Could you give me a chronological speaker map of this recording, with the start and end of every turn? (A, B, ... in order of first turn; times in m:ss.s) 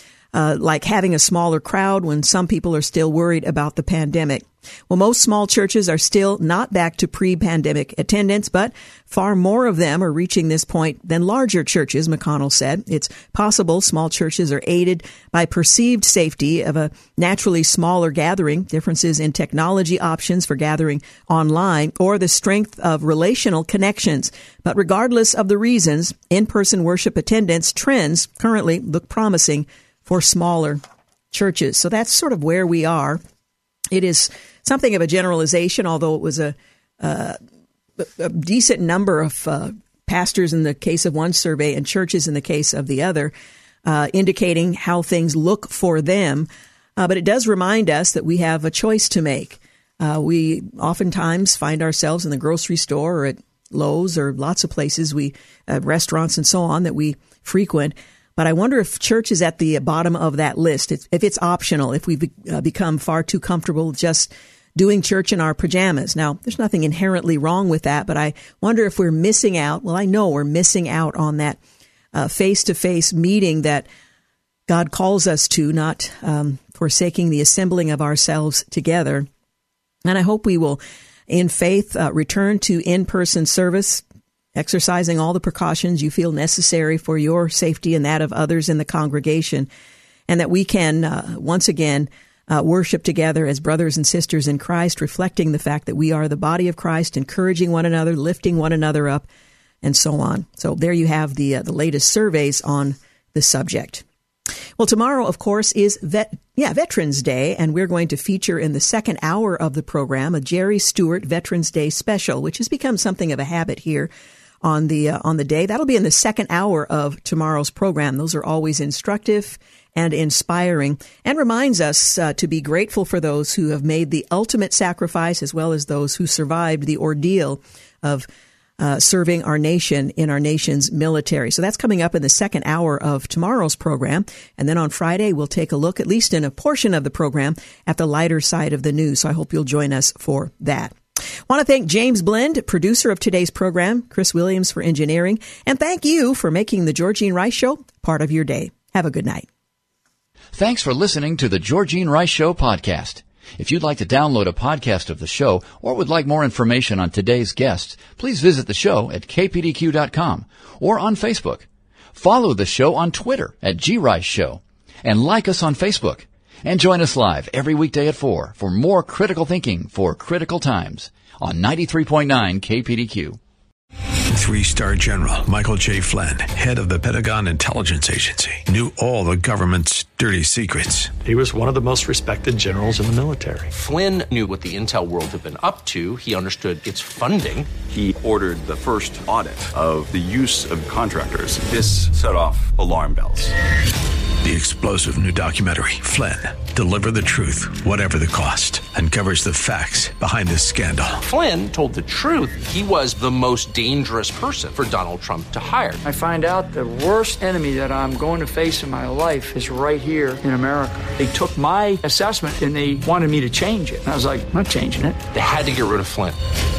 0:00.3-0:30.8 A
0:31.3-0:33.2 A
0:33.9-0:37.4 A
0:38.0-0:43.3 A
0:43.8-1:11.6 A
1:12.1-1:13.9 A
1:14.7-1:19.3 A
1:20.0-1:24.0 A
1:24.5-1:29.7 A
1:30.3-1:39.2 A
1:39.8-1:44.0 A
1:44.8-1:54.1 A
1:54.6-2:08.3 A
2:08.8-2:21.0 A
2:21.5-2:29.5 A
2:30.5-2:53.4 B
2:54.3-3:01.1 C
3:01.2-3:03.7 D
3:03.7-3:07.7 E
3:07.9-3:13.5 F
3:14.4-3:21.2 C
3:21.2-3:26.0 E
3:26.0-3:35.3 G
3:35.3-3:36.4 E